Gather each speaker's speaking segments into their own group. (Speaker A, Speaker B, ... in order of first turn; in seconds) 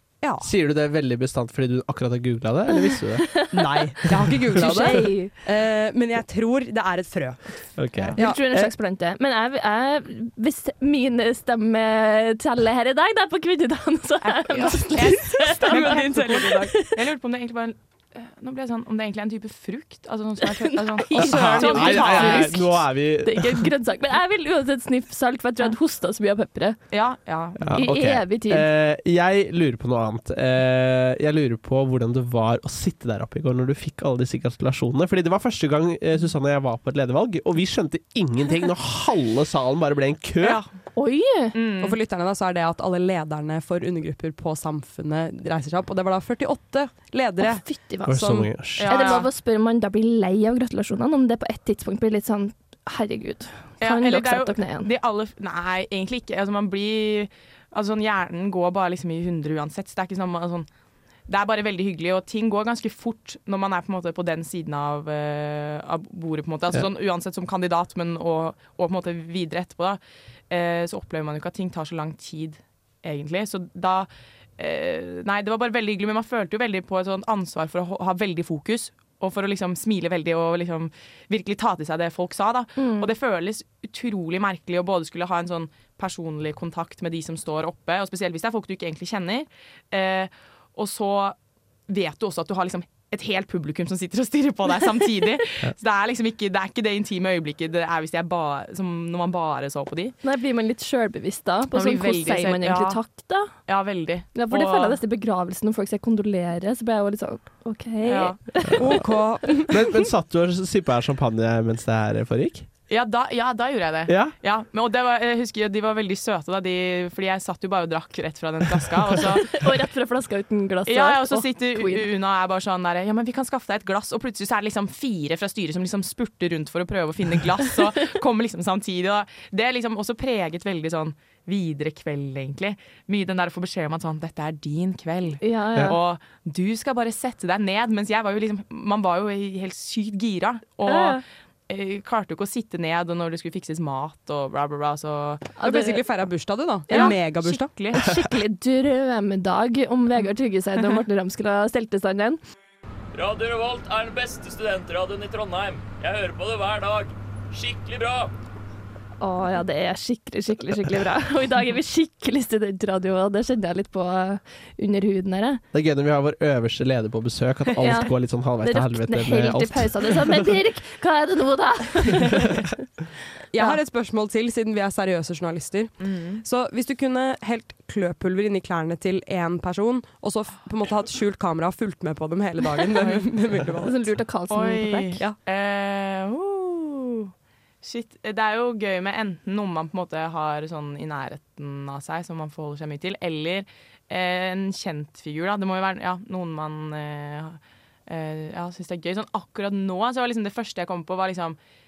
Speaker A: 0.2-0.5, 3.6-7.4, 15.4-16.6, 21.2-22.1, 41.8-47.6, 48.2-48.5, 108.8-109.8, 145.6-147.7, 173.5-175.9, 176.4-184.1
Speaker B: 0.4-3.4, 4.5-5.0, 7.8-8.7, 21.2-23.7, 27.6-40.6, 48.1-49.0, 109.7-112.7, 114.1-114.3, 165.7-170.5
Speaker C: 4.5-5.3, 8.2-16.9, 20.6-26.8, 27.7-28.7, 40.9-41.6, 47.4-54.9, 82.8-83.1, 100.2-103.5, 104.3-109.0, 119.2-122.1, 135.4-136.0, 140.8-141.2, 145.6-146.1, 146.9-147.2, 147.9-152.4, 159.2-165.6, 167.8-172.7, 183.8-185.2
Speaker D: 14.4-22.6, 26.9-27.8, 40.4-40.7, 41.5-42.0, 48.8-49.3, 53.8-60.7, 61.3-91.3, 91.9-100.2, 101.7-103.0, 103.5-105.0, 108.0-108.4, 112.9-119.6, 120.8-145.5, 146.9-148.1, 176.0-176.4, 183.0-183.3, 184.5-187.3, 187.8-201.6
Speaker E: 153.1-158.3